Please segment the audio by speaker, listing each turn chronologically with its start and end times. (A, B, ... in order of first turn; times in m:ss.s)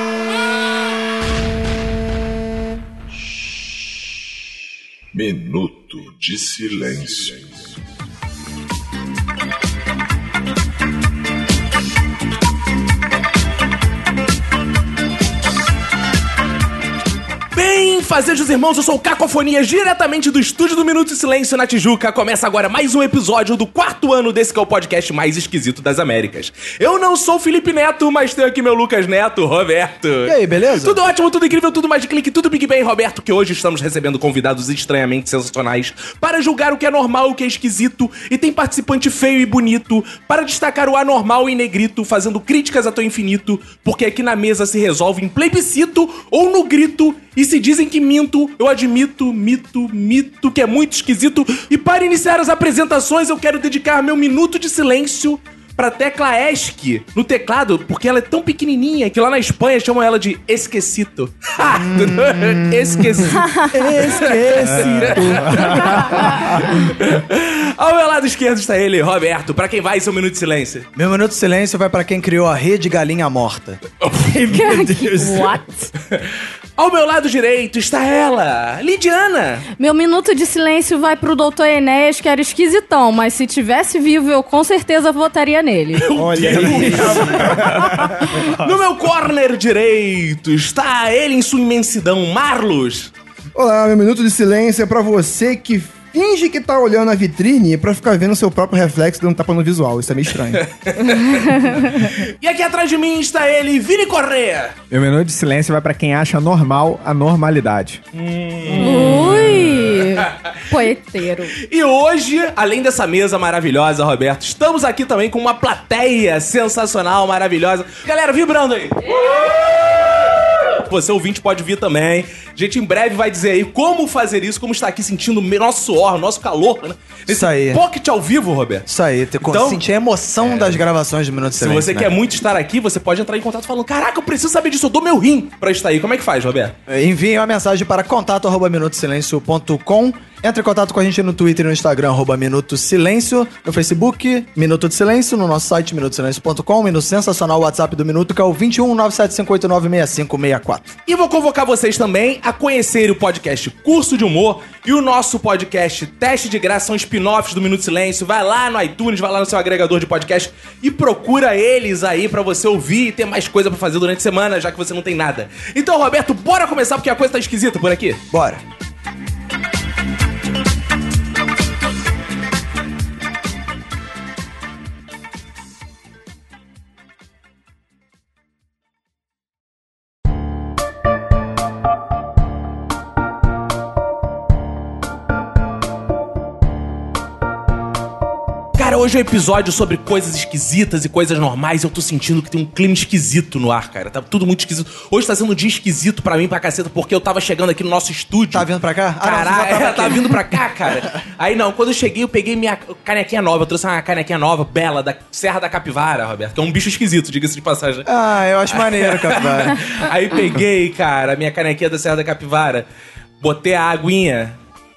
0:05.1-0:07.7 A
0:17.5-1:10.9 B
0:30.2-0:31.0 C
1:01.7-1:03.4 C
1:03.4-1:03.7 D
1:03.6-1:05.6 E
1:03.9-1:05.6 C
1:05.7-1:06.5 D
1:11.0-1:13.8 C
1:14.0-1:14.5 B
1:14.4-1:15.9 D
1:14.9-1:15.2 E
1:16.8-1:19.7 B
1:19.8-1:26.1 D
1:26.0-1:27.6 B
1:26.1-1:28.5 E
1:26.6-1:27.1 F
1:27.8-1:28.1 D
1:28.4-1:33.1 B
1:33.6-1:40.6 E
1:40.6-1:44.8 B
1:41.1-1:42.0 D
1:44.9-1:48.0 F
1:48.1-1:50.2 B
1:48.8-1:51.6 D
1:51.7-1:59.8 B
2:00.7-2:08.9 B
2:07.3-2:07.8 C
2:08.9-2:12.1 C
2:09.4-2:09.8 B
2:10.4-2:10.8 B
2:11.5-2:16.8 B
2:16.9-2:31.0 C
2:31.1-2:48.2 B
2:48.3-2:48.6 C
3:08.8-3:18.7 B
3:18.5-3:20.9 C
3:19.2-3:28.1 B
3:28.1-3:29.8 C
3:28.7-3:32.9 B
3:33.4-3:34.6 B